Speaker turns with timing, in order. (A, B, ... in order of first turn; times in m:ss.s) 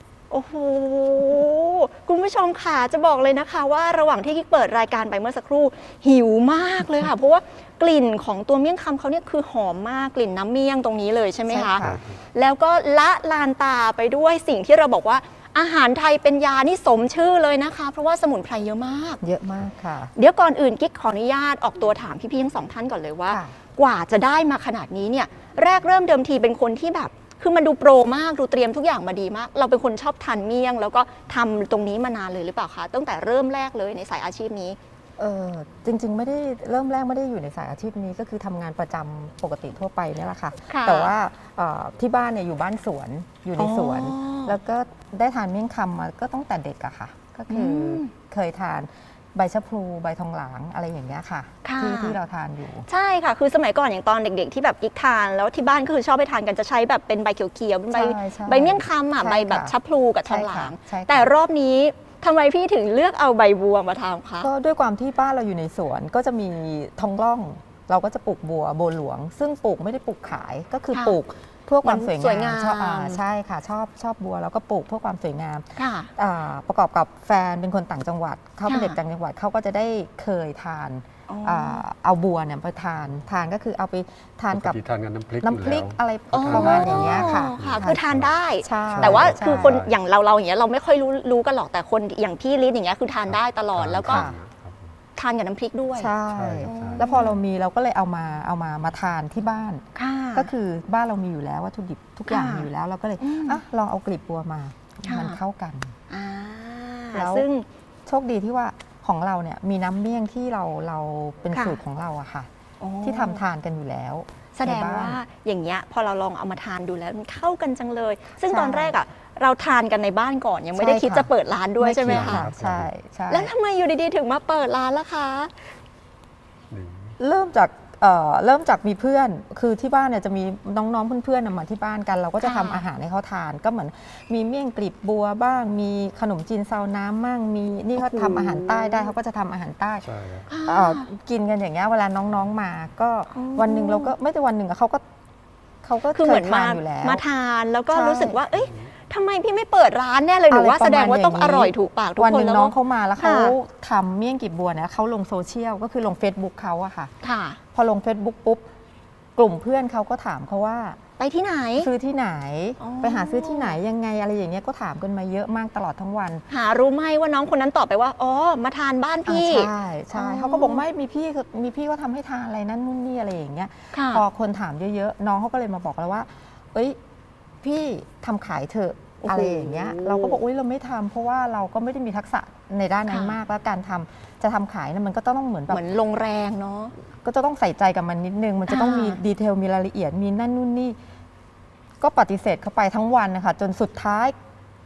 0:00.3-0:19.2 A
0:11.5-0:12.0 B
0:11.8-0:12.2 C
0:19.2-0:20.1 B
0:20.2-0:34.8 A
0:23.3-0:23.5 B
0:35.2-0:52.9 B
0:40.7-0:41.1 A
0:43.6-0:44.6 A
0:47.5-0:48.1 A
0:51.6-0:52.2 A
0:52.9-1:04.5 A
0:57.9-0:59.7 B
1:00.2-1:01.3 B
1:04.4-1:24.8 B
1:11.8-1:13.2 A
1:15.8-1:16.1 A
1:18.6-1:19.0 A
1:21.3-1:21.8 A
1:24.5-1:30.0 C
1:25.4-1:28.0 B
1:26.3-1:34.2 A
1:28.6-1:29.8 B
1:33.3-1:34.9 C
1:34.0-1:34.4 B
1:35.2-1:37.4 A
1:36.0-1:45.9 B
1:36.3-1:37.2 C
1:39.9-1:40.5 A
1:42.3-1:42.7 A
1:43.2-1:43.6 A
1:45.0-1:45.4 A
1:46.1-1:47.6 A
1:47.1-1:47.5 B
1:48.1-1:52.5 B
1:51.5-1:51.8 A
1:52.8-1:53.4 A
1:53.0-1:55.2 B
1:54.5-2:02.5 A
1:58.4-1:59.0 B
2:00.8-2:03.5 B
2:02.0-2:02.9 C
2:03.3-2:05.5 A
2:06.7-2:07.2 C
2:07.2-2:20.0 B
2:12.4-2:12.8 A
2:18.1-2:19.0 A
2:20.0-2:20.5 C
2:20.5-2:21.1 A
2:20.6-2:25.0 B
2:23.3-2:24.1 A
2:25.8-2:27.2 B
2:26.1-2:33.6 A
2:27.9-2:28.4 B
2:28.5-2:28.9 C
2:30.5-2:37.1 B
2:37.2-2:37.6 A
2:37.7-2:38.6 B
2:39.4-2:41.0 B
2:41.2-2:41.9 A
2:41.8-2:46.4 B
2:42.8-2:43.8 A
2:46.5-2:50.8 A
2:49.3-2:57.0 B
2:53.9-2:54.2 A
2:57.6-3:05.8 B
2:59.2-3:00.4 A
3:03.1-3:03.3 A
3:05.7-3:06.9 A
3:07.2-3:11.0 B
3:08.7-3:09.2 A
3:12.0-3:14.3 B